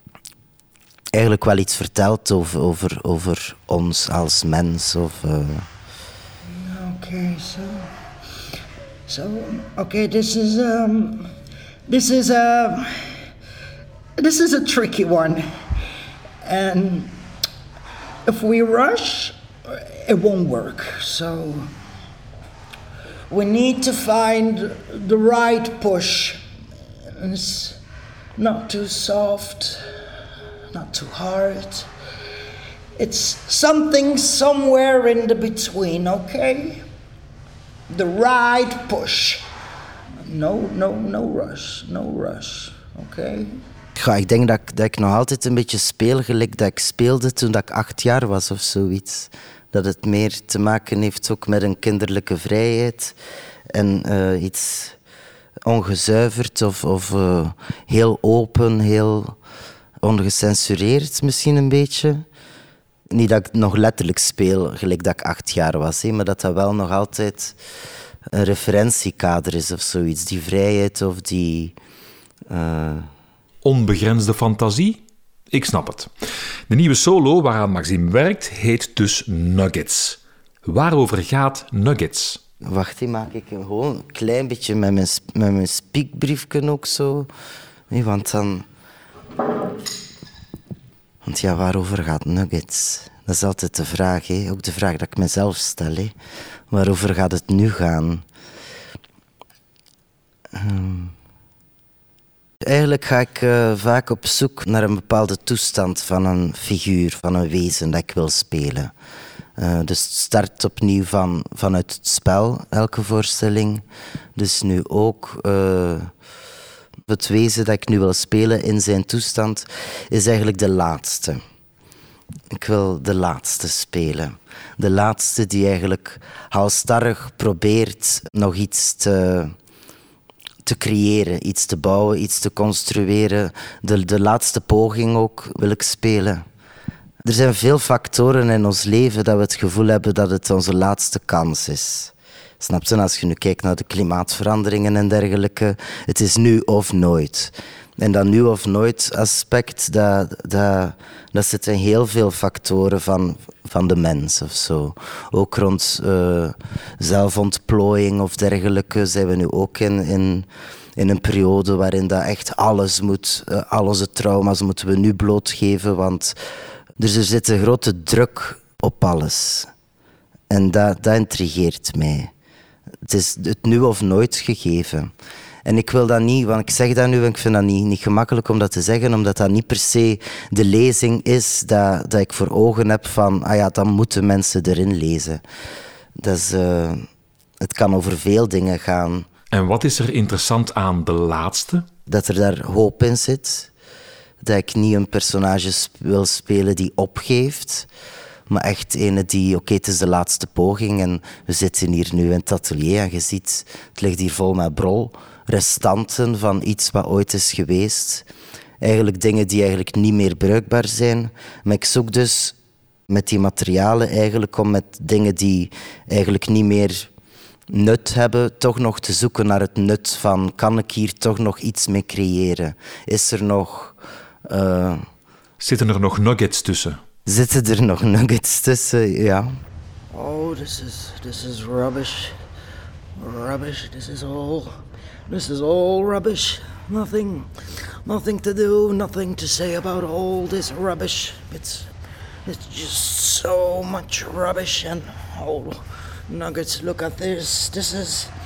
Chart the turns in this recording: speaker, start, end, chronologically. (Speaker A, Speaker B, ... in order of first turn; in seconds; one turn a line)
Speaker A: 1.1-5.7
Speaker B: 6.5-7.8
Speaker B: 9.1-11.3
Speaker B: 11.9-13.1
Speaker B: 14.2-15.4
Speaker B: 16.4-17.1
Speaker B: 18.3-21.7
Speaker B: 23.3-26.4
Speaker B: 27.2-27.8
Speaker B: 28.4-29.8
Speaker B: 30.7-31.9
Speaker B: 33.0-36.8
Speaker B: 37.9-39.4
Speaker B: 40.3-43.5
Speaker A: 44.0-53.1
Speaker A: 53.7-55.0
Speaker A: 55.6-59.4
Speaker A: 60.0-62.2
Speaker A: 63.1-67.5
Speaker A: 68.3-71.8
Speaker A: 72.5-73.1
Speaker C: 73.6-76.1
Speaker C: 76.7-82.4
Speaker A: 82.7-87.3
Speaker A: 87.9-88.6
Speaker A: 91.2-96.1
Speaker A: 96.7-98.2
Speaker A: 100.5-101.1
Speaker A: 102.6-108.9
Speaker A: 109.6-113.8
Speaker A: 114.3-116.1
Speaker A: 117.1-121.4
Speaker A: 122.5-129.5
Speaker A: 130.6-136.4
Speaker A: 137.2-166.3
Speaker A: 167.0-169.7
Speaker A: 170.5-172.3
Speaker A: 173.1-175.1
Speaker A: 175.6-185.4
Speaker A: 186.2-187.0
Speaker A: 187.6-189.3
Speaker C: 189.5-191.8
Speaker A: 192.1-193.7
Speaker A: 194.4-197.9
Speaker A: 198.5-208.2
Speaker A: 208.8-212.6
Speaker A: 213.1-217.1
Speaker A: 217.7-223.9
Speaker A: 224.5-225.0
Speaker C: 225.6-227.0
Speaker A: 227.2-229.5
Speaker A: 230.2-232.2
Speaker A: 233.2-234.2
Speaker A: 235.6-236.6
Speaker A: 238.1-241.8
Speaker B: 242.5-245.2
Speaker A: 243.0-243.3
Speaker B: 247.2-248.1
Speaker A: 247.5-247.8